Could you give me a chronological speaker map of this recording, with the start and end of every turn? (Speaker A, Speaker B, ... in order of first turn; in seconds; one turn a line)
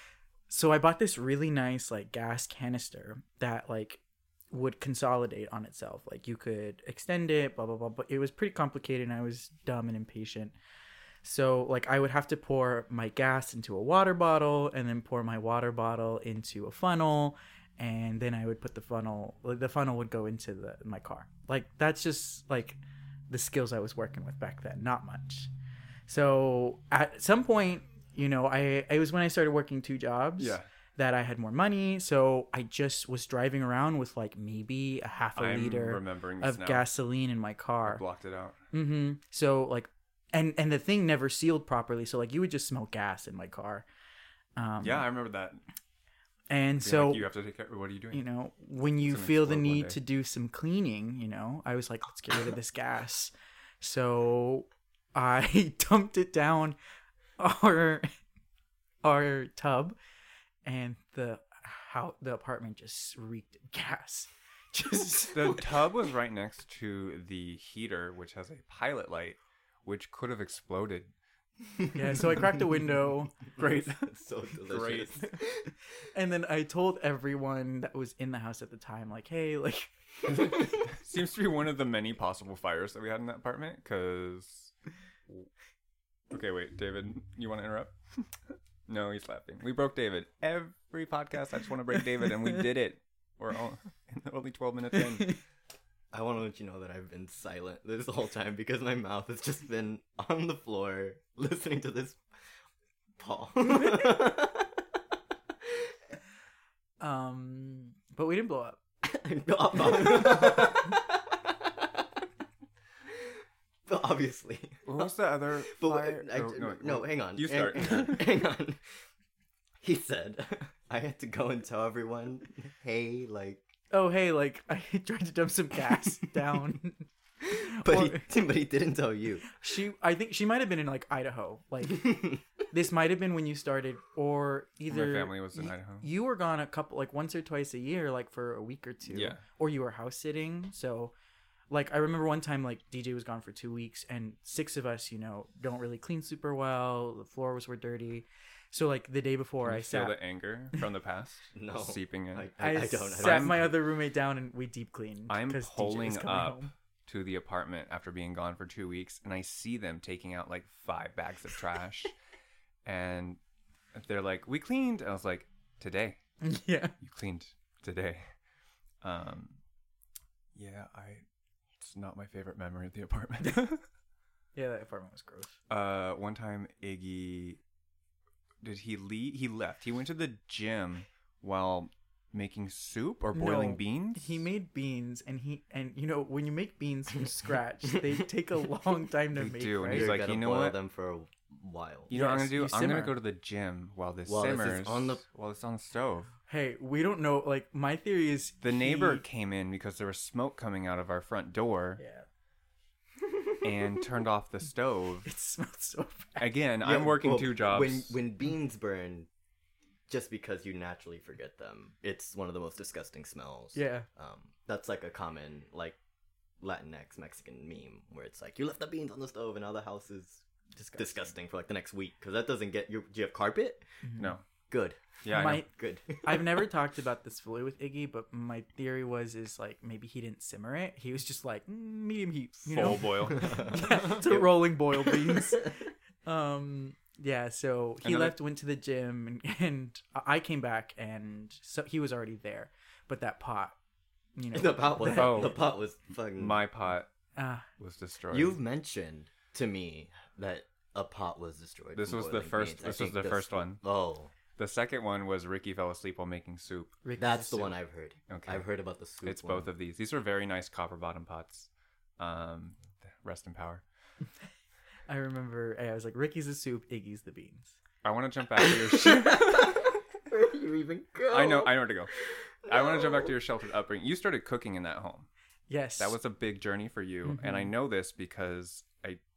Speaker A: 0.5-10.5
Speaker A: 11.2-22.8
Speaker A: 23.3-25.5
Speaker A: 26.1-38.0
Speaker B: 30.4-30.6
Speaker B: 35.4-36.9
Speaker B: 37.8-38.6
Speaker A: 38.7-43.8
Speaker A: 44.5-45.1
Speaker B: 44.8-45.6
Speaker A: 46.5-47.2
Speaker B: 46.8-48.2
Speaker A: 48.1-56.8
Speaker B: 49.0-50.0
Speaker A: 57.4-58.1
Speaker A: 59.0-60.0
Speaker A: 60.6-65.7
Speaker B: 65.3-71.1
Speaker A: 71.9-73.3
Speaker C: 73.5-75.7
Speaker B: 73.6-73.9
Speaker B: 74.6-75.3
Speaker A: 76.1-79.9
Speaker B: 80.3-84.7
Speaker B: 86.3-88.3
Speaker B: 88.9-95.4
Speaker C: 96.1-102.2
Speaker C: 103.2-104.8
Speaker A: 103.7-104.1
Speaker A: 107.0-108.8
Speaker C: 109.0-112.1
Speaker C: 113.8-115.1
Speaker B: 114.8-118.3
Speaker C: 115.6-118.8
Speaker A: 115.9-116.2
Speaker C: 119.8-123.6
Speaker A: 123.9-128.3
Speaker C: 127.4-129.5
Speaker A: 129.5-141.1
Speaker C: 132.0-132.3
Speaker B: 134.9-136.1
Speaker B: 139.1-139.4
Speaker A: 141.7-150.2
Speaker B: 149.6-152.5
Speaker C: 151.5-153.7
Speaker A: 152.6-156.7
Speaker B: 153.1-153.7
Speaker B: 155.3-162.1
Speaker B: 162.8-163.4
Speaker B: 163.9-166.2
Speaker A: 166.4-166.9
Speaker B: 167.0-168.3
Speaker B: 169.0-169.6
Speaker B: 170.5-171.2
Speaker B: 171.8-173.8
Speaker A: 174.5-175.6
Speaker B: 175.7-177.6
Speaker B: 178.6-184.4
Speaker A: 183.3-190.1
Speaker B: 189.3-190.8
Speaker C: 189.9-192.1
Speaker B: 192.1-196.3
Speaker A: 192.1-193.2
Speaker C: 194.2-195.2
Speaker A: 196.5-199.2
Speaker B: 198.6-202.0
Speaker A: 202.0-202.2
Speaker B: 203.6-205.3
Speaker A: 205.2-206.5
Speaker B: 206.4-208.2
Speaker C: 206.8-209.3
Speaker C: 210.1-216.0
Speaker A: 213.7-214.1
Speaker C: 216.6-223.8
Speaker A: 224.0-224.4
Speaker B: 224.2-224.4
Speaker C: 224.7-226.6
Speaker B: 225.2-225.7
Speaker A: 225.3-225.7
Speaker A: 226.2-243.8
Speaker B: 232.7-234.1
Speaker C: 233.2-235.7
Speaker B: 238.0-238.3
Speaker A: 244.3-245.6
Speaker C: 244.5-246.6
Speaker B: 245.1-245.6
Speaker B: 246.4-247.1
Speaker A: 247.3-247.7
Speaker B: 247.8-248.6
Speaker C: 248.3-254.3
Speaker B: 251.9-253.8
Speaker B: 254.6-257.0
Speaker A: 257.0-257.8
Speaker C: 257.2-259.7
Speaker B: 258.3-258.6
Speaker B: 259.2-263.8
Speaker A: 265.1-267.8
Speaker B: 268.0-269.9
Speaker C: 268.6-271.9
Speaker B: 271.3-272.1
Speaker C: 272.6-273.3
Speaker B: 272.7-275.3
Speaker A: 275.7-276.1
Speaker B: 276.0-279.2
Speaker A: 277.2-277.7